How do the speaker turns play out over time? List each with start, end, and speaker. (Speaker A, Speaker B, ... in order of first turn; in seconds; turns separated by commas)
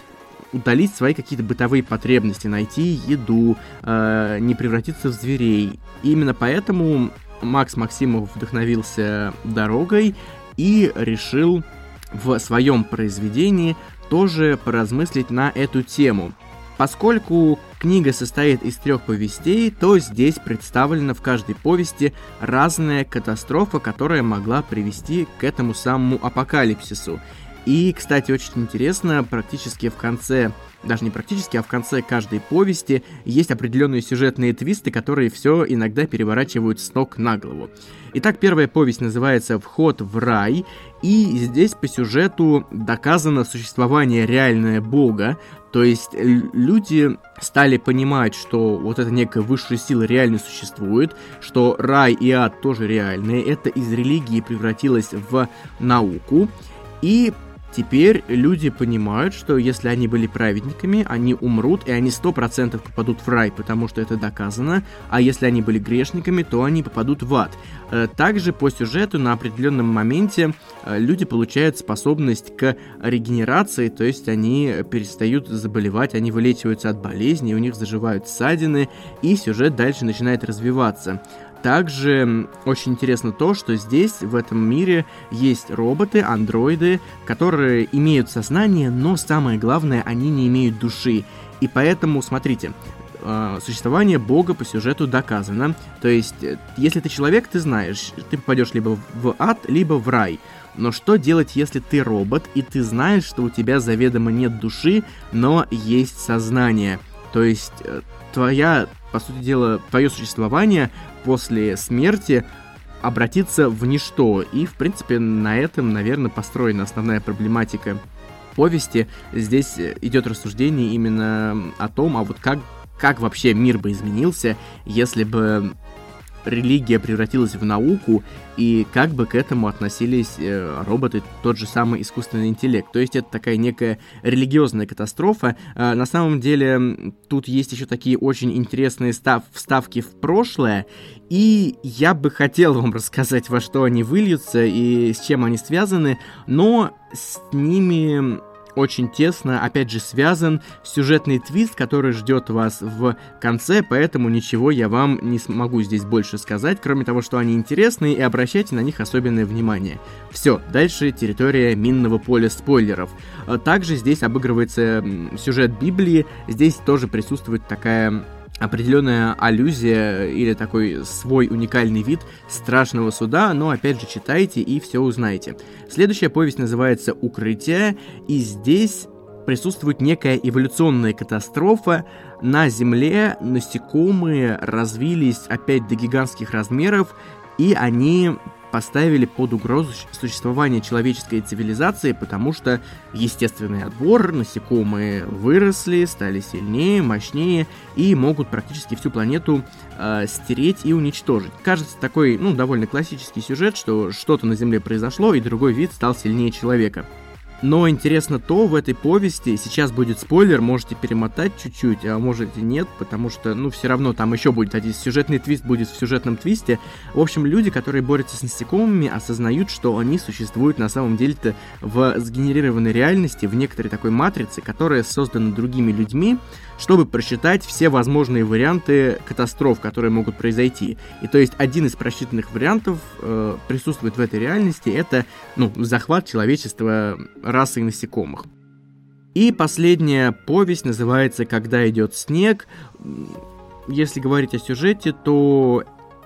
Speaker A: 0.5-112.5, Speaker A: 113.0-118.0, Speaker A: 118.5-125.7, Speaker A: 126.5-207.1, Speaker A: 207.6-238.5, Speaker A: 239.3-245.8